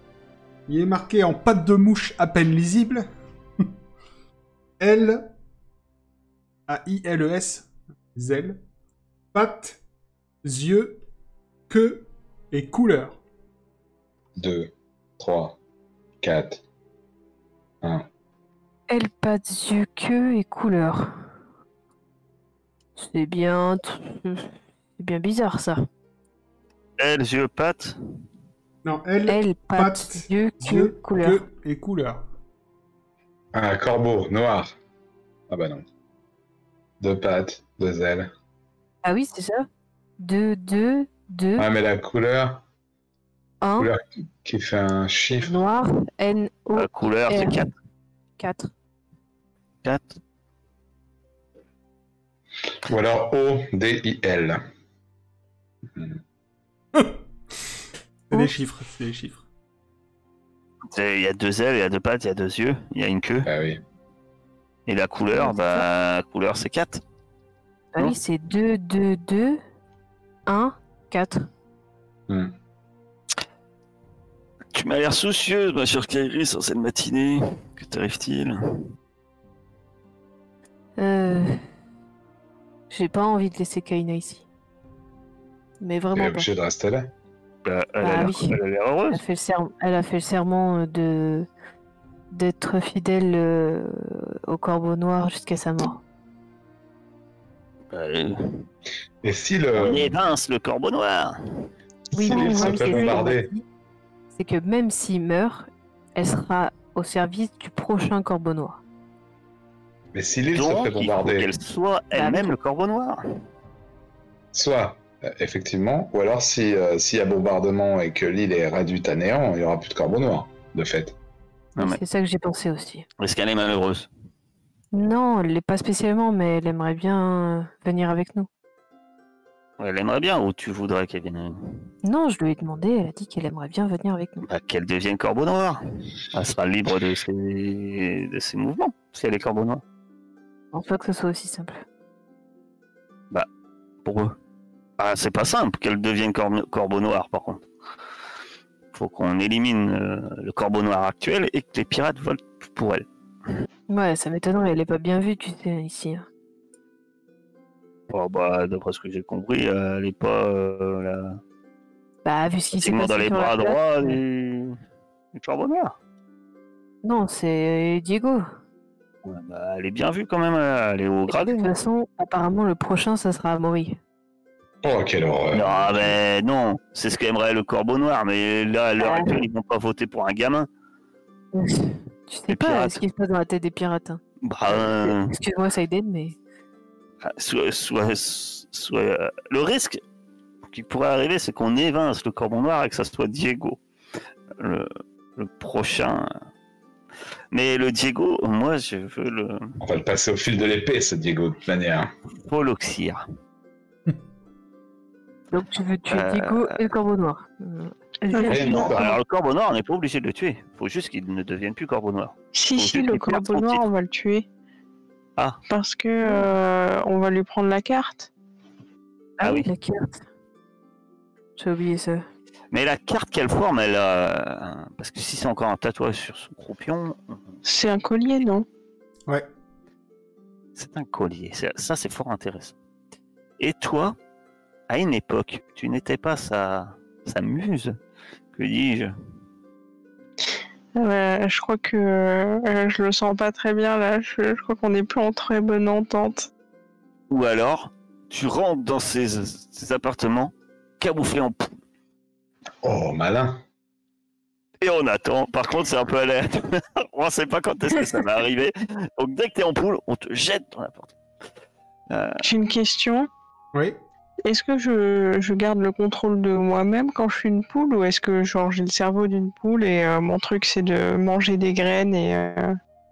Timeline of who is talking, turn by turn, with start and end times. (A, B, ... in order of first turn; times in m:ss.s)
0:00.7-0:03.1 A
0:04.8-0:05.3 A
0:06.7-0:08.6 A
0:09.3-0:09.8 A
0:10.4-0:11.0 A
0:11.7-0:13.2 A
0:14.4-0:15.6 B
0:16.2-0:16.6 B
0:18.9-0:21.2 C
0:23.0-0:25.8 C
0:27.0-0:28.0 D
0:28.8-0:32.2 A
0:29.2-0:31.4 C
0:33.5-0:34.7 B
0:35.5-0:35.8 B
0:37.0-0:38.3 B
0:39.0-0:39.7 C
0:40.2-0:41.7 C
0:41.6-0:42.6 B
0:43.6-0:43.9 C
0:43.8-0:45.6 B
0:45.4-0:47.7 C
0:46.7-0:47.7 D
0:48.4-0:48.7 C
0:49.8-0:50.2 D
0:52.8-0:54.6 B
0:58.3-0:59.4 A
1:00.9-1:03.5 D
1:03.4-1:03.8 B
1:04.8-1:07.0 D
1:05.3-1:05.8 C
1:07.9-1:09.6 C
1:10.4-1:11.5 C
1:12.3-1:12.5 B
1:14.7-1:18.8 D
1:21.0-1:21.6 C
1:22.9-1:24.4 C
1:25.8-1:26.5 C
1:26.1-1:27.1 B
1:27.6-1:29.2 D
1:28.0-1:28.6 C
1:29.1-1:31.5 C
1:32.3-1:36.0 C
1:37.9-1:38.7 D
1:39.2-1:40.2 B
1:39.8-1:41.7 D
1:42.1-1:43.6 C
1:42.2-1:43.5 B
1:44.3-1:48.8 C
1:50.1-1:51.5 B
1:50.5-1:53.2 D
1:52.1-1:52.5 C
1:54.5-2:01.1 B
2:01.8-2:03.1 C
2:03.2-2:04.1 D
2:04.9-2:08.5 C
2:09.8-2:11.9 D
2:12.0-2:14.4 C
2:14.4-2:19.8 D
2:20.7-2:21.8 C
2:24.0-2:24.4 D
2:25.0-2:27.6 D
2:28.9-2:33.0 D
2:33.9-2:36.2 C
2:38.1-2:41.4 D
2:42.2-2:44.2 C
2:42.8-2:44.8 D
2:45.3-2:45.9 D
2:47.0-2:48.4 C
2:49.2-2:51.7 D
2:51.3-2:54.0 C
2:54.8-2:56.2 B
2:55.5-3:00.7 D
2:59.0-2:59.4 C
3:01.5-3:06.4 C
3:02.5-3:03.0 D
3:04.4-3:05.3 D
3:07.2-3:10.0 D
3:10.7-3:13.8 D
3:14.6-3:16.3 D
3:17.5-3:19.8 D
3:19.8-3:22.1 B
3:22.4-3:23.2 D
3:25.5-3:29.0 C
3:26.1-3:26.8 D
3:28.3-3:28.6 E
3:28.5-3:29.2 B
3:28.5-3:33.8 D
3:32.5-3:34.5 E
3:35.7-3:38.3 E
3:39.4-3:40.2 C
3:39.4-3:39.7 D
3:41.6-3:42.2 C
3:42.7-3:47.6 D
3:47.6-3:48.6 E
3:50.8-3:52.8 D
3:53.6-3:54.2 D
3:54.9-3:58.0 D
3:58.5-3:59.1 D
4:01.0-4:06.5 E
4:07.3-4:11.7 D
4:12.8-4:13.6 B
4:14.8-4:21.1 D
4:22.1-4:22.4 D
4:22.4-4:23.3 E
4:23.7-4:24.0 A
4:24.4-4:32.7 E